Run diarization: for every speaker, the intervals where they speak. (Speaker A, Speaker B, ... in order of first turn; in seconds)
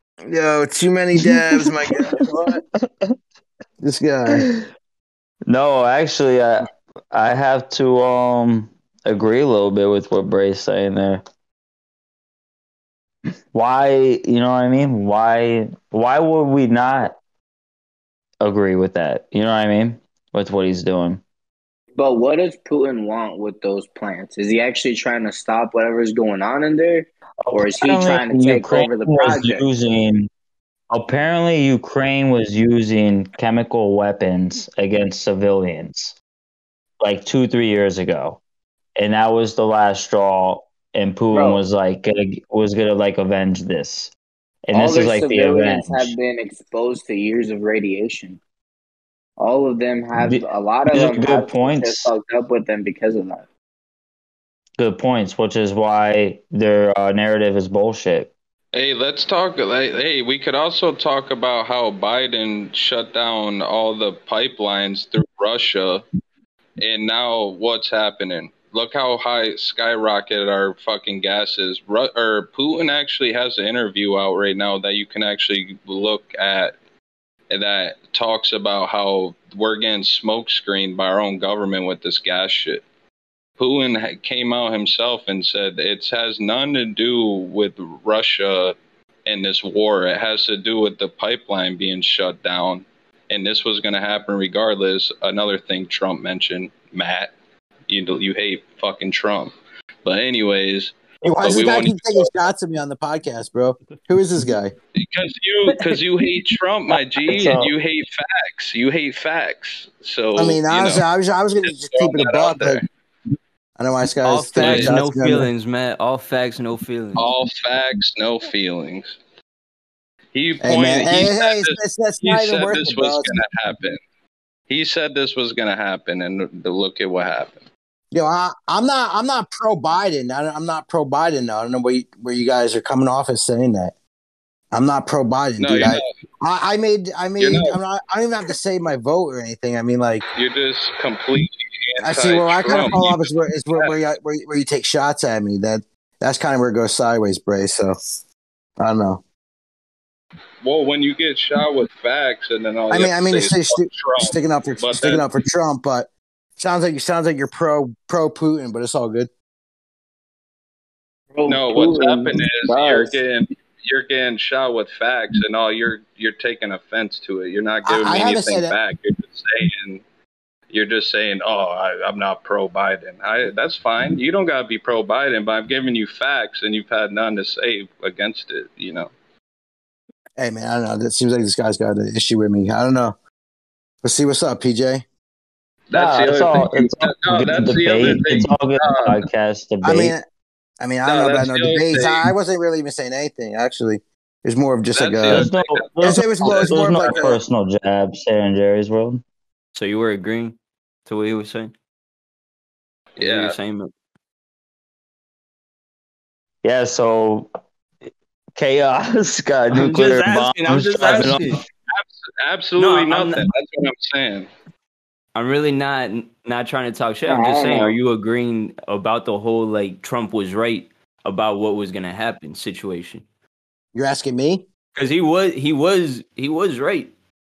Speaker A: 0.3-2.6, 3.8-4.5, 101.2-104.7, 110.3-112.8, 113.8-115.5, 120.6-123.3, 128.1-133.9, 134.7-140.3, 142.0-147.9, 148.8-149.2, 152.9-159.3, 167.8-168.7, 180.4-183.1, 184.0-185.0, 189.8-190.2, 190.8-195.5, 196.0-197.4, 223.9-224.7
Speaker B: 1.2-3.1, 4.3-4.6, 5.5-11.2, 13.5-17.2, 18.4-21.2, 27.4-30.3, 30.9-36.2, 37.0-38.4, 39.0-44.1, 44.7-46.1, 50.2-52.1, 54.8-58.3, 107.3-107.7, 185.9-190.1, 195.3-199.2, 206.6-207.5, 208.6-211.6
Speaker C: 22.0-29.6, 41.3-41.6, 44.7-48.4, 49.4-53.4, 161.3-163.1, 217.2-218.0
Speaker D: 58.7-66.0, 66.8-76.8, 77.5-82.8, 83.6-97.3, 97.9-99.5, 100.0-102.3, 105.0-111.0, 111.6-112.8, 114.5-114.9, 117.1-119.2, 120.3-124.0, 124.7-127.6, 135.6-136.1, 137.4-137.8, 140.3-143.9, 150.6-155.3, 161.4-170.0, 170.7-179.1, 185.9-189.2, 191.0-192.3, 194.9-197.3, 203.2-203.6, 211.9-214.5
Speaker E: 114.2-117.3, 199.7-200.5, 201.1-201.7, 203.2-203.9, 209.7-211.6, 212.8-213.5, 215.3-223.2, 224.9-227.1